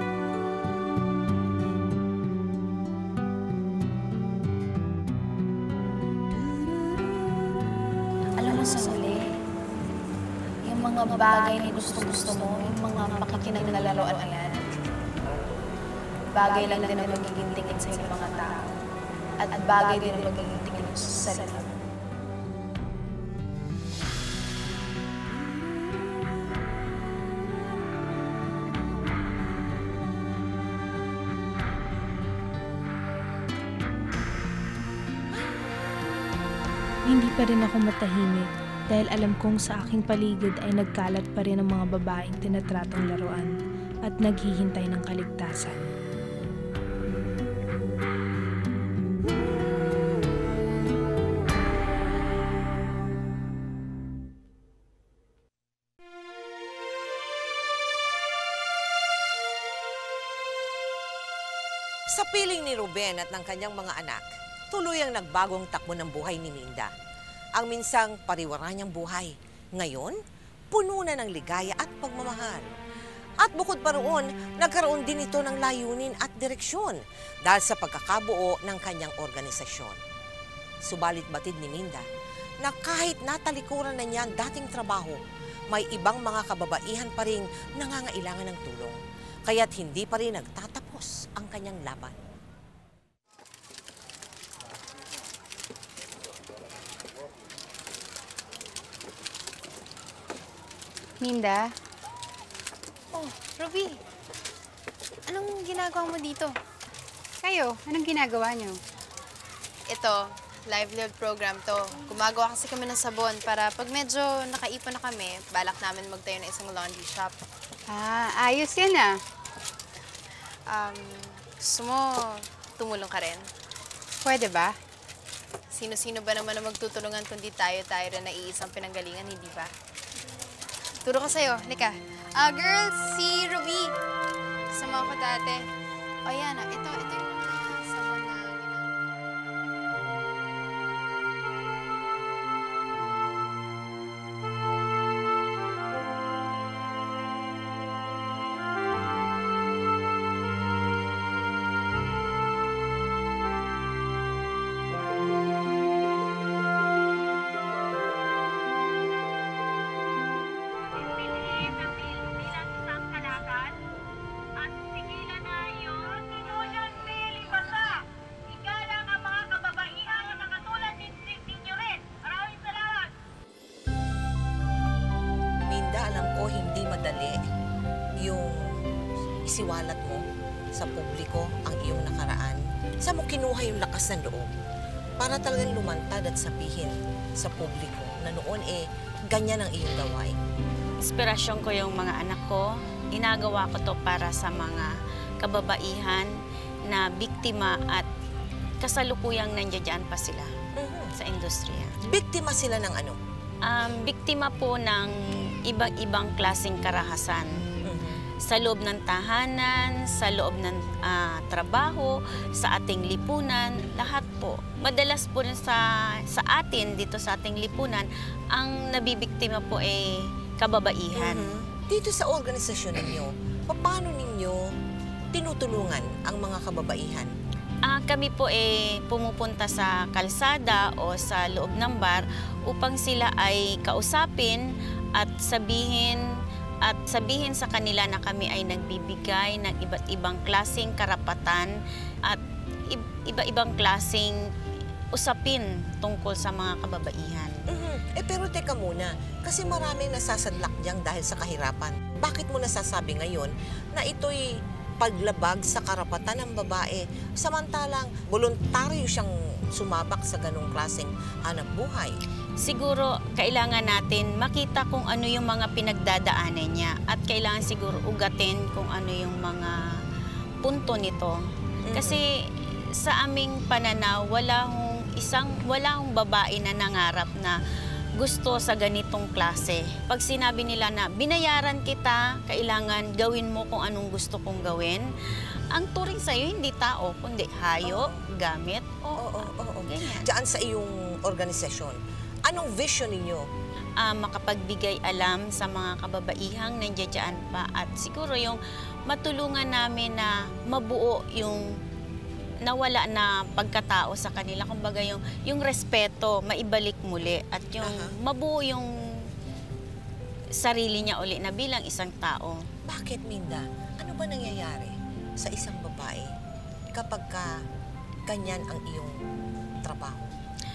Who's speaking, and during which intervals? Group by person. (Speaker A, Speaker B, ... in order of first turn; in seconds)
Speaker A: 8.4-9.2, 10.7-14.8, 16.4-18.7, 19.4-21.8, 103.1-104.0, 105.3-106.5, 109.9-117.3, 120.7-123.5, 125.7-129.7, 131.0-133.9, 134.7-135.7, 136.3-138.9
Speaker B: 13.2-13.9, 16.5-18.8, 19.9-21.6, 37.1-43.5, 44.0-45.8
Speaker C: 62.1-66.9, 67.6-70.2, 70.7-72.6, 73.4-80.0, 80.9-82.0, 82.6-85.2, 85.7-92.2, 175.7-177.4, 178.2-178.8, 179.5-184.5, 185.2-190.4, 200.8-201.1, 202.0-203.2, 207.8-208.2, 221.1-224.6, 225.3-227.3, 247.7-254.5, 255.0-262.1, 271.9-272.2, 287.8-288.2, 289.2-293.5, 307.8-308.1, 312.9-316.3, 316.9-317.6, 318.3-319.2, 319.8-320.3
Speaker D: 101.2-101.7, 107.4-108.8, 117.9-119.1, 124.2-124.7
Speaker E: 161.4-161.8, 191.1-194.9, 195.4-196.3, 196.9-198.1, 198.8-200.5, 201.2-201.9, 203.7-205.1, 205.7-207.5, 208.5-221.5, 227.9-234.6, 235.2-236.2, 236.8-244.3, 245.1-247.5, 262.6-269.8, 270.6-271.4, 271.9-272.3, 273.0-277.6, 278.2-285.1, 285.7-290.3, 294.0-301.7, 302.6-308.9, 310.6-312.6